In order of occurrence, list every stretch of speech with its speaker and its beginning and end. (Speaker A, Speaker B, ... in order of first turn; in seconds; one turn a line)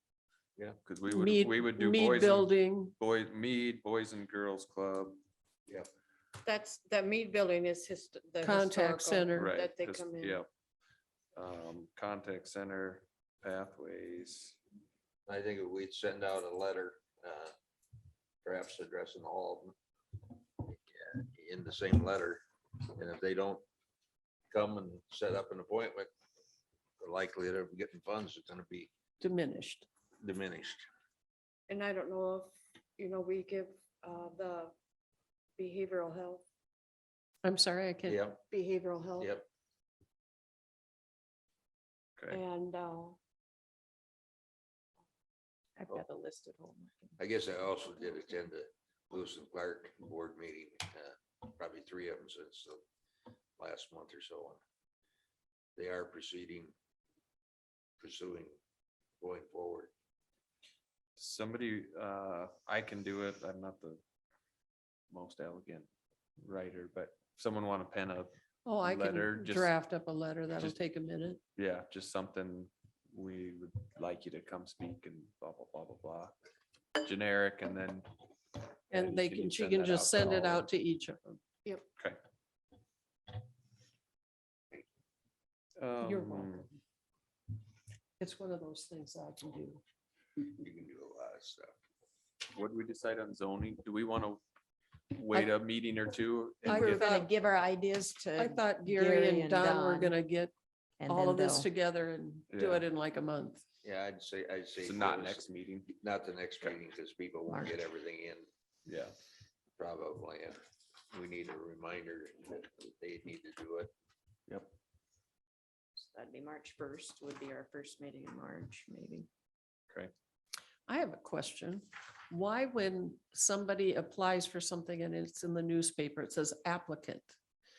Speaker A: 0.8-5.2
Speaker B: 1.1-2.9
Speaker C: 6.4-10.4
Speaker B: 8.4-9.5
Speaker A: 9.4-10.5
Speaker A: 11.3-14.6
Speaker D: 15.3-17.6
Speaker D: 18.4-19.8
Speaker D: 20.6-22.4
Speaker D: 22.9-23.6
Speaker D: 24.5-26.1
Speaker D: 27.0-28.9
Speaker B: 29.2-29.9
Speaker D: 30.2-30.9
Speaker C: 31.7-34.7
Speaker C: 35.6-36.4
Speaker B: 37.4-38.2
Speaker D: 38.0-38.4
Speaker C: 38.5-39.3
Speaker D: 39.2-39.5
Speaker C: 42.3-43.2
Speaker E: 45.8-47.1
Speaker D: 47.2-52.8
Speaker D: 53.6-54.6
Speaker D: 55.8-56.7
Speaker D: 58.0-58.6
Speaker D: 59.2-59.9
Speaker A: 61.2-64.0
Speaker A: 65.1-65.9
Speaker A: 66.4-69.7
Speaker B: 68.6-71.4
Speaker A: 71.5-76.4
Speaker A: 77.0-78.1
Speaker A: 78.9-80.7
Speaker B: 78.9-81.4
Speaker A: 85.8-86.7
Speaker B: 86.0-86.7
Speaker B: 88.2-89.8
Speaker D: 90.5-91.7
Speaker A: 92.5-94.4
Speaker A: 95.1-97.1
Speaker B: 96.7-97.3
Speaker E: 96.7-100.2
Speaker B: 98.3-100.5
Speaker E: 101.0-101.7
Speaker B: 101.1-103.6
Speaker A: 102.5-102.8
Speaker D: 103.8-108.5
Speaker A: 104.8-106.0
Speaker E: 107.5-107.8
Speaker A: 108.9-109.1
Speaker D: 109.8-113.9
Speaker E: 116.0-119.3
Speaker B: 120.9-127.3